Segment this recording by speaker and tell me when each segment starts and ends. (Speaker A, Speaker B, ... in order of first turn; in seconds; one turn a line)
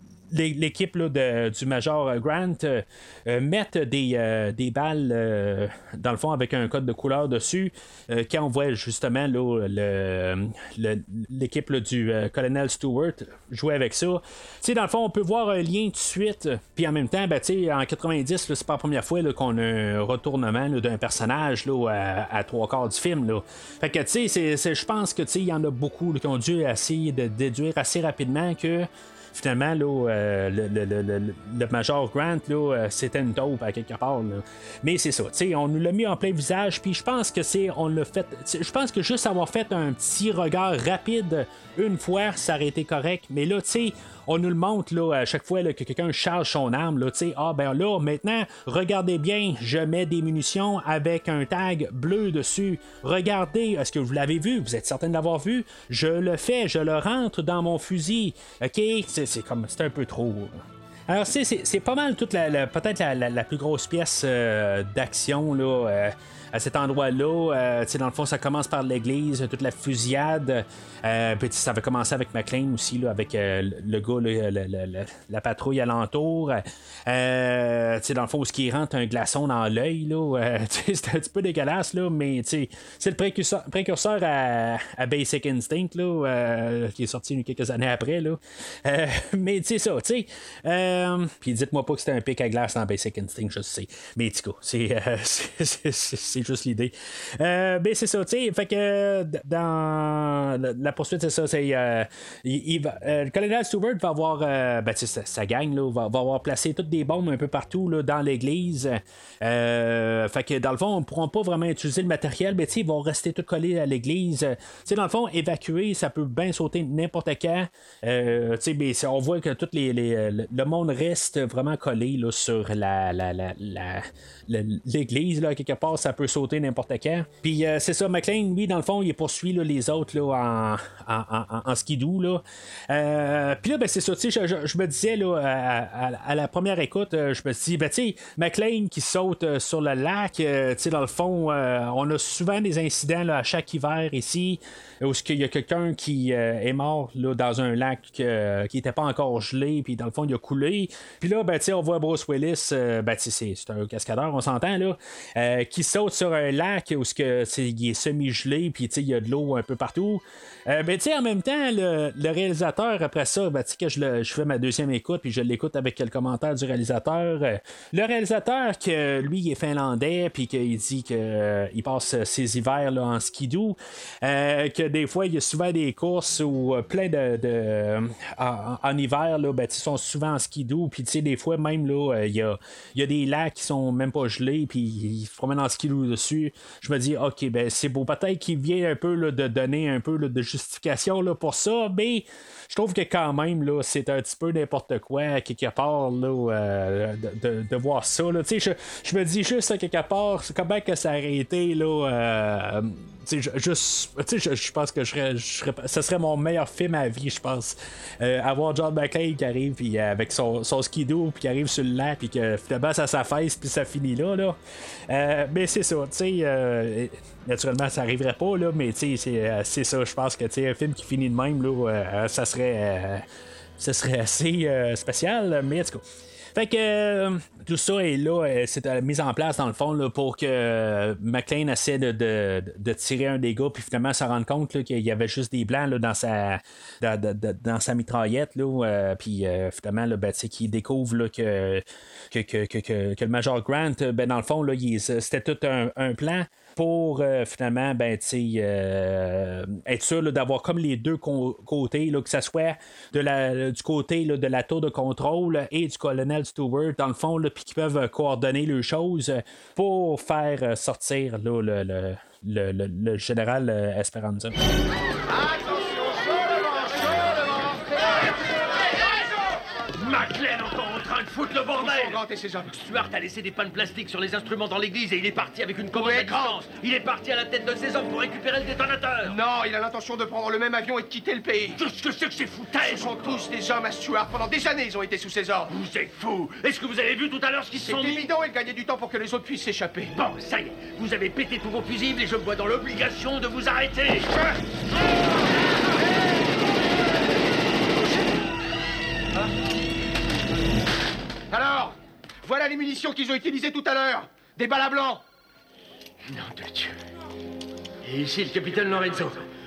Speaker A: 0.3-214.6
Speaker A: 215.1-223.2
Speaker A: 223.8-226.0
Speaker A: 226.5-264.6
Speaker B: 265.3-267.7
Speaker C: 269.9-272.2
Speaker B: 271.6-272.7
Speaker C: 272.7-279.4
Speaker B: 275.9-276.6
Speaker B: 279.2-281.9
Speaker C: 281.8-283.4
Speaker B: 282.7-285.7
Speaker C: 285.7-288.3
Speaker B: 287.7-290.2
Speaker C: 290.2-294.3
Speaker B: 301.5-305.2
Speaker C: 306.3-306.9
Speaker C: 308.1-309.4